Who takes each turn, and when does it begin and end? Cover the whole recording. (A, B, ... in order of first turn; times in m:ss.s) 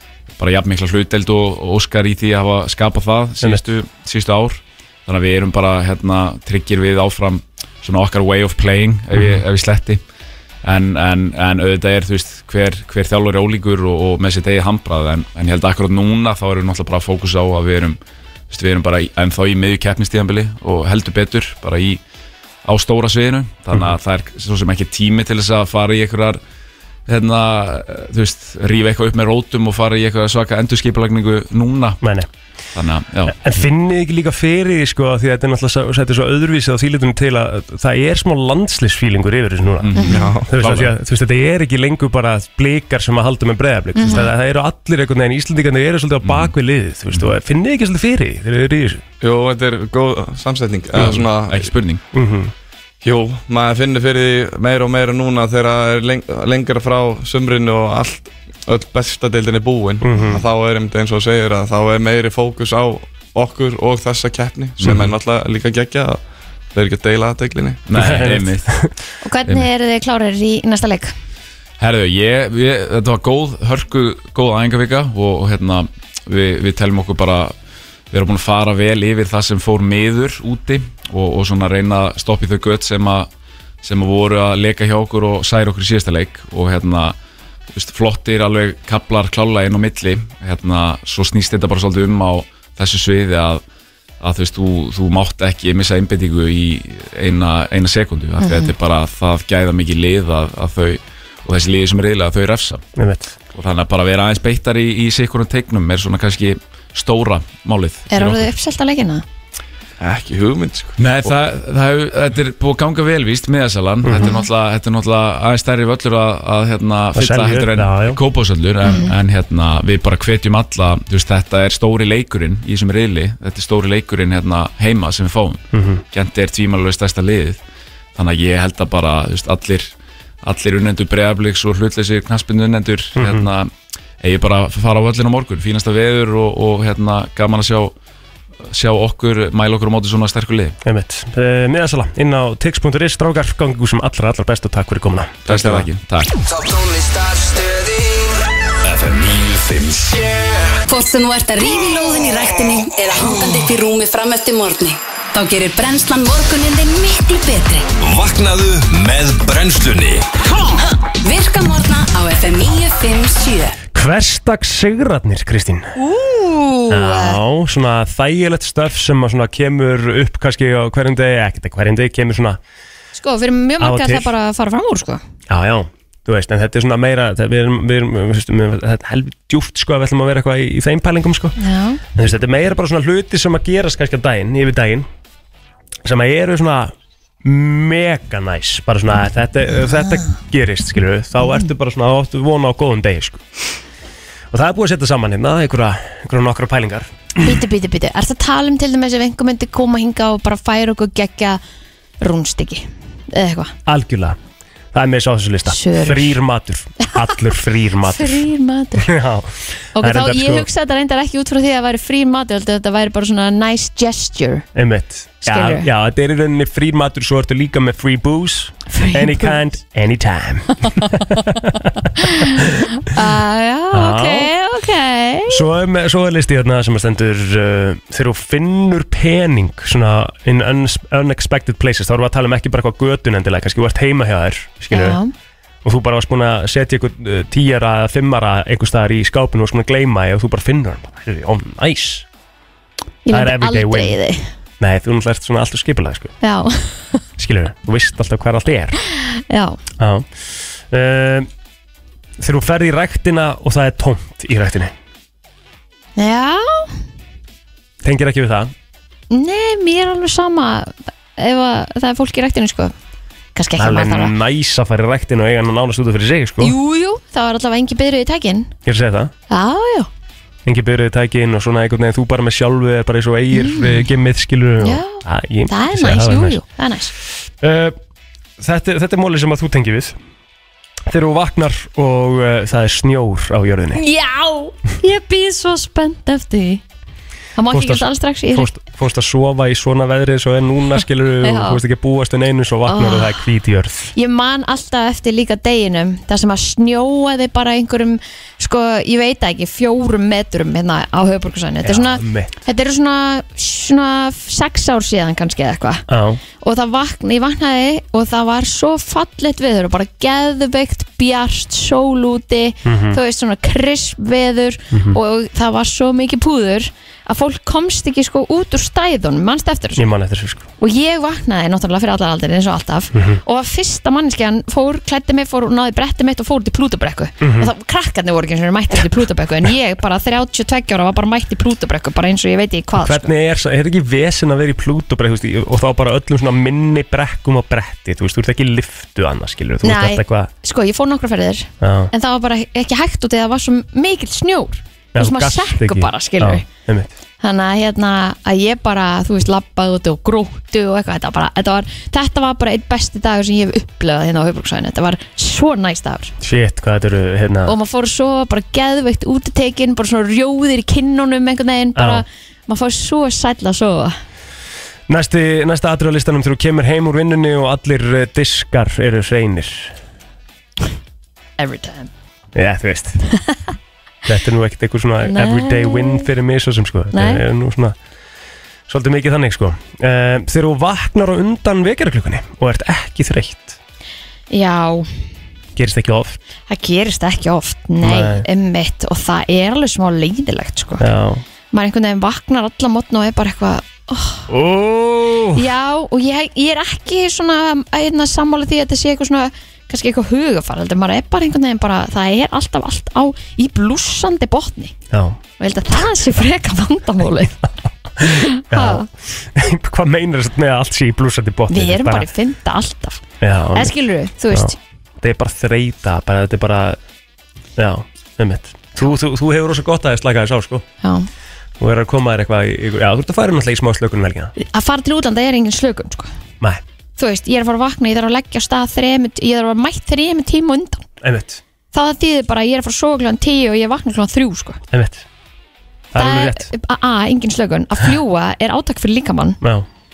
0:00.4-0:10.0 A
0:10.6-0:18.0 A
0:18.5-0:22.0 A
0:22.6-0:26.4 A
0:27.1-0:32.0 A
0:32.0-0:32.3 B
0:32.7-0:33.3 A
0:33.3-0:49.0 B
0:39.8-0:40.9 A
0:39.9-0:40.2 C
0:40.1-0:40.8 D
0:43.9-0:44.3 C
0:46.2-0:46.5 A
0:49.2-0:51.7 D
0:50.9-0:52.0 A
0:52.1-0:52.5 B
0:53.0-1:06.2 D
1:00.0-1:00.4 B
1:04.8-1:05.1 B
1:06.7-1:07.8 D
1:07.9-1:08.7 A
1:07.9-1:08.9 B
1:09.2-1:11.1 C
1:11.8-1:17.5 A
1:18.1-1:23.3 A
1:23.8-1:27.2 A
1:27.7-1:33.6 A
1:34.2-1:42.8 A
1:38.4-1:38.7 C
1:43.0-1:43.3 B
1:43.5-1:48.5 A
1:48.1-1:49.2 C
1:50.0-1:51.3 D
1:51.0-2:07.6 A
1:54.0-1:54.4 B
1:54.2-1:54.4 C
1:57.1-1:58.2 B
1:58.8-1:59.1 C
2:05.7-2:06.0 B
2:08.2-2:17.9 A
2:13.2-2:13.5 B
2:18.7-2:20.8 A
2:20.8-2:25.9 B
2:25.4-2:26.4 A
2:26.9-2:27.8 E
2:28.8-2:30.6 E
2:30.9-2:37.9 F
2:38.0-2:40.3 E
2:40.6-2:43.8 F
2:43.9-2:45.9 B
2:46.0-2:47.4 C
2:46.9-2:52.6 B
2:53.1-2:55.2 C
2:53.8-2:54.3 B
2:55.5-3:01.6 B
3:01.6-3:02.0 C
3:02.1-3:05.1 B
3:06.0-3:13.4 B
3:14.5-3:17.1 B
3:17.4-3:21.6 C
3:22.2-3:23.7 C
3:23.8-3:24.4 B
3:24.9-3:28.5 B
3:25.7-3:26.4 C
3:27.0-3:27.3 C
3:28.0-3:29.1 C
3:29.0-3:30.7 B
3:30.0-3:34.6 C
3:34.7-3:42.8 B
3:35.4-3:35.9 C
3:38.9-3:39.6 C
3:42.3-3:45.6 C
3:43.9-3:44.5 B
3:45.5-3:55.2 B
3:54.9-3:55.3 C
3:55.8-4:02.2 B
4:03.2-4:04.4 C
4:03.3-4:04.2 B
4:04.8-4:06.3 B
4:06.4-4:07.2 C
4:07.4-4:09.0 B
4:09.2-4:09.8 C
4:10.0-4:10.3 B
4:10.9-4:11.5 B
4:12.4-4:14.9 B
4:16.2-4:16.9 C
4:18.0-4:18.7 B
4:19.3-4:22.9 C
4:23.5-4:24.3 C
4:23.8-4:26.7 B
4:26.6-4:28.7 C
4:28.8-4:29.3 B
4:29.5-4:30.1 C
4:30.6-4:36.6 B
4:33.5-4:34.0 C
4:34.8-4:37.1 C
4:37.6-4:38.0 B
4:38.6-4:40.2 B
4:41.1-4:44.0 B
4:43.9-4:46.8 C
4:47.6-4:48.7 C
4:47.7-4:54.1 B
4:51.4-4:51.8 C
4:52.9-4:53.4 C
4:54.1-5:06.0 C
5:01.8-5:02.5 B
5:06.1-5:06.4 B
5:06.6-5:20.0 C
5:12.8-5:13.2 B
5:14.9-5:15.2 B
5:20.0-5:20.6 B
5:20.8-5:33.3 C
5:23.1-5:23.4 B
5:27.4-5:27.7 B
5:33.0-5:40.5 B
5:39.8-5:46.6 C
5:41.8-5:42.1 B
5:45.1-5:47.1 B
5:47.4-5:56.3 C
5:56.4-5:57.7 B
5:57.6-6:04.2 C
6:02.0-6:02.2 B
6:05.1-6:09.9 B
6:11.6-6:12.1 C
6:12.5-6:13.2 B
6:14.2-6:18.0 B
6:15.2-6:16.3 C
6:17.1-6:17.4 C
6:18.9-6:23.8 B
6:24.5-6:25.1 C
6:25.8-6:26.4 B
6:26.7-6:31.0 C
6:28.0-6:28.4 B
6:31.0-6:31.4 B
6:31.7-6:34.5 C
6:34.5-6:35.6 B
6:35.5-6:44.9 C
6:45.1-6:45.4 B
6:45.6-6:47.6 C
6:48.2-6:52.3 B
6:48.2-6:49.1 C
6:51.7-6:53.2 C
6:53.4-6:53.9 B
6:53.7-6:54.8 C
6:54.5-6:57.0 B
6:57.8-7:00.8 B
7:01.0-7:01.3 C
7:01.8-7:04.5 B
7:04.6-7:06.3 C
7:07.2-7:11.0 C
7:11.2-7:11.6 B
7:11.9-7:14.8 C
7:14.9-7:15.2 B
7:16.1-7:16.7 B
7:16.2-7:19.6 C
7:19.6-7:19.8 B